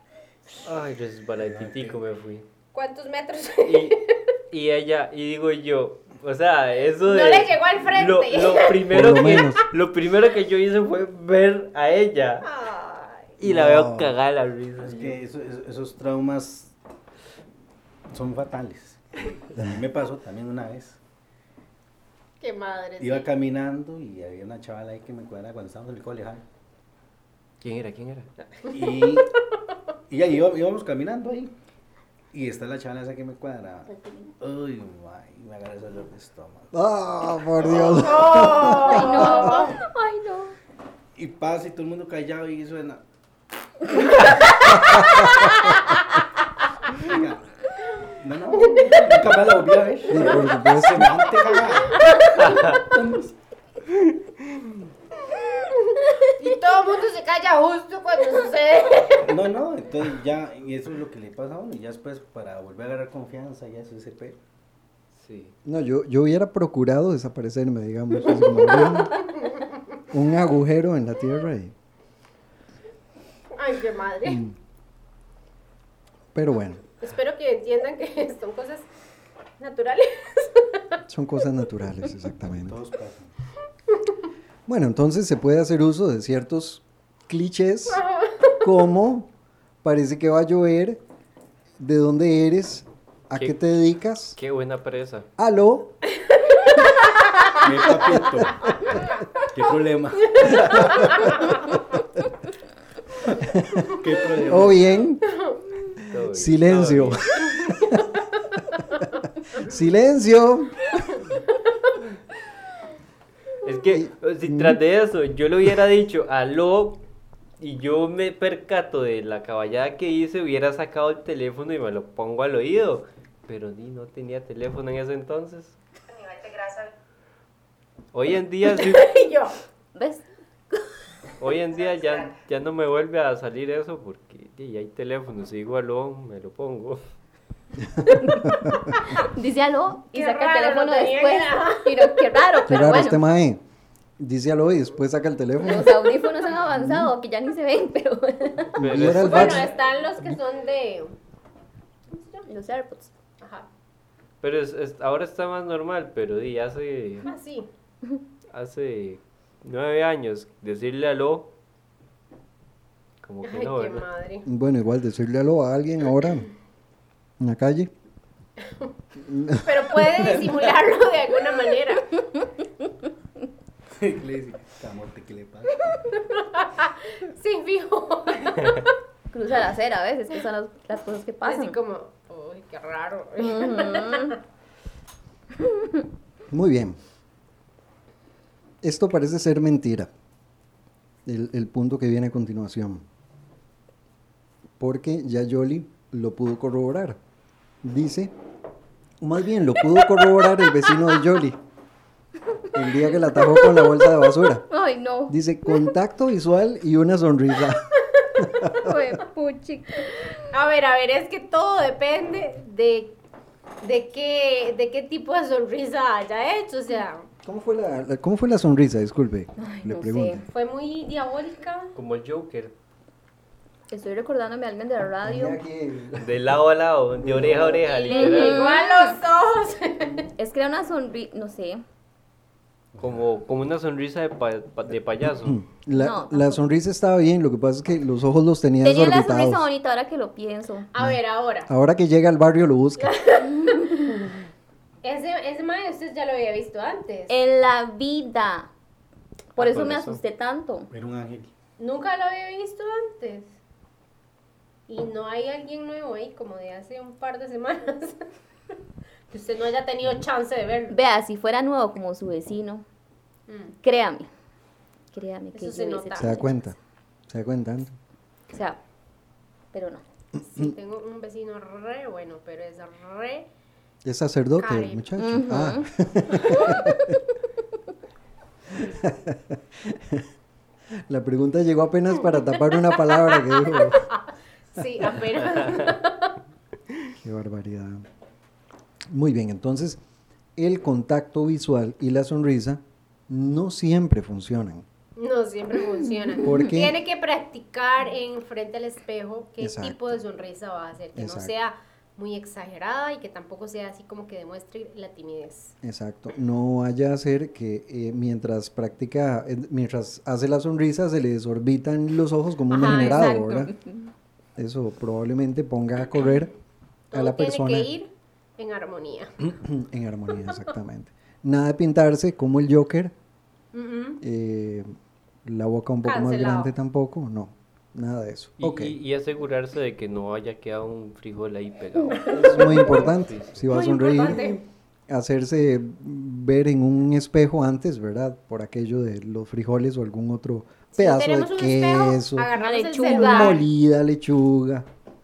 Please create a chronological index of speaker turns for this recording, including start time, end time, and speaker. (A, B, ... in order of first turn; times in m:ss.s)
0:00.6-0:02.4 A
0:01.5-0:02.0 B
0:02.7-0:04.3 C
0:03.6-0:04.0 A
0:04.5-0:12.5 A
0:07.0-0:09.0 C
0:08.9-0:09.7 D
0:12.4-0:13.3 C
0:13.4-0:15.2 A
0:13.4-0:14.1 D
0:14.8-0:16.7 B
0:18.1-0:21.0 B
0:22.4-0:23.3 C
0:23.0-0:26.4 B
0:27.6-0:28.3 A
0:28.7-0:29.3 B
0:29.0-0:29.2 C
0:30.1-0:31.5 B
0:32.3-0:36.7 B
0:33.9-0:34.3 E
0:36.7-0:39.2 D
0:37.6-0:38.0 B
0:37.8-0:39.8 C
0:38.5-0:40.6 E
0:41.2-0:43.0 B
0:44.9-0:45.5 D
0:47.0-0:47.4 B
0:48.2-0:53.3 B
0:48.5-0:49.2 C
0:50.1-0:51.2 D
0:50.2-0:50.6 C
0:51.9-0:52.8 C
0:52.4-0:52.8 A
0:55.2-0:59.4 C
0:59.2-1:04.4 B
1:05.2-1:05.6 A
1:05.6-1:09.3 D
1:08.7-1:09.6 C
1:10.1-1:11.7 D
1:13.5-1:14.4 C
1:14.2-1:14.6 D
1:16.3-1:16.8 D
1:17.0-1:18.9 C
1:19.6-1:21.0 C
1:21.1-1:22.8 D
1:22.6-1:23.3 B
1:24.7-1:28.0 D
1:28.0-1:28.6 C
1:28.6-1:29.3 D
1:29.8-1:31.0 D
1:31.8-1:34.4 D
1:34.4-1:35.3 A
1:35.4-1:36.0 D
1:36.2-1:37.5 C
1:37.5-1:38.7 B
1:38.0-1:38.5 D
1:39.4-1:41.5 B
1:40.3-1:41.3 C
1:43.4-1:44.0 D
1:43.8-1:44.8 B
1:44.5-1:45.2 D
1:46.1-1:47.3 A
1:46.2-1:48.0 D
1:47.6-1:48.0 C
1:49.5-1:51.0 D
1:53.6-1:57.0 A
1:53.9-1:54.8 D
1:57.6-2:05.8 A
2:06.4-2:06.8 C
2:08.1-2:09.1 A
2:08.7-2:09.6 C
2:10.0-2:10.9 E
2:11.4-2:17.0 A
2:17.8-2:19.0 D
2:18.2-2:23.2 E
2:20.1-2:22.2 C
2:22.7-2:23.6 D
2:24.2-2:26.1 D
2:25.6-2:28.8 E
2:26.7-2:27.1 D
2:28.8-2:29.7 D
2:28.8-2:29.7 A
2:29.0-2:31.1 C
2:32.1-2:32.5 C
2:32.5-2:33.1 E
2:33.4-2:33.7 C
2:34.4-2:37.3 A
2:37.2-2:37.7 C
2:38.5-2:41.5 A
2:43.2-2:44.1 A
2:43.4-2:44.5 C
2:44.5-2:46.5 D
2:47.4-2:47.9 D
2:48.6-2:48.9 C
2:49.2-2:50.3 D
2:49.6-2:52.2 C
2:53.9-2:56.0 B
2:56.1-2:58.9 C
2:59.3-3:01.8 E
3:01.4-3:04.4 C
3:03.4-3:04.4 E
3:05.6-3:06.0 E
3:06.5-3:07.0 D
3:08.8-3:10.1 D
3:11.3-3:13.0 D
3:14.8-3:17.2 D
3:17.8-3:18.3 D
3:19.2-3:21.6 D
3:22.7-3:24.7 D
3:23.2-3:24.1 E
3:24.7-3:25.9 E
3:25.3-3:29.2 D
3:28.7-3:30.3 E
3:30.5-3:33.2 C
3:33.8-3:37.3 C
3:37.4-3:40.4 D
3:39.6-3:40.4 E
3:40.5-3:41.9 C
3:41.9-3:42.7 A
3:43.9-3:45.6 E
3:45.2-3:46.5 D
3:46.2-3:48.7 A
3:47.2-3:47.8 D
3:47.8-3:50.3 C
3:48.0-3:49.2 E
3:50.4-3:51.8 E
3:53.0-3:53.2 B
3:53.0-3:55.6 A
3:55.4-3:59.6 D
3:55.9-3:56.6 E
3:58.8-4:00.9 E
4:00.9-4:01.7 C
4:01.0-4:03.1 D
4:03.0-4:04.2 C
4:05.0-4:07.3 C
4:07.3-4:08.7 E
4:09.6-4:10.9 E
4:09.6-4:10.2 A
4:10.9-4:11.5 B
4:11.8-4:13.5 C
4:14.9-4:18.3 C
4:19.3-4:20.9 C
4:20.9-4:22.8 E
4:23.5-4:23.8 C
4:23.8-4:24.3 E
4:25.1-4:26.5 E
4:25.6-4:26.3 C
4:26.2-4:26.8 D
4:27.3-4:28.0 D
4:28.5-4:28.8 E
4:29.7-4:30.0 E
4:30.4-4:33.5 C
4:34.0-4:37.2 D
4:34.6-4:35.1 C
4:35.2-4:35.9 E
4:38.7-4:40.3 D
4:41.1-4:44.1 D
4:43.7-4:44.1 C
4:44.7-4:46.4 C
4:47.2-4:48.1 D
4:49.1-4:50.0 D
4:50.6-4:54.9 D
4:55.2-5:05.8 C
4:56.4-4:57.0 D
4:59.6-5:00.2 D
5:01.2-5:01.5 D
5:05.8-5:13.7 D
5:12.7-5:13.7 C
5:14.6-5:16.5 D
5:17.1-5:17.9 D
5:17.1-5:19.4 C
5:19.4-5:23.1 D
5:23.7-5:24.2 C
5:24.2-5:24.9 D
5:25.4-5:29.0 D
5:26.0-5:26.7 C
5:28.6-5:33.7 A
5:32.1-5:33.1 C
5:32.3-5:42.5 D
5:33.7-5:34.6 C
5:41.0-5:43.6 C
5:42.6-5:43.6 E
5:43.0-5:44.9 D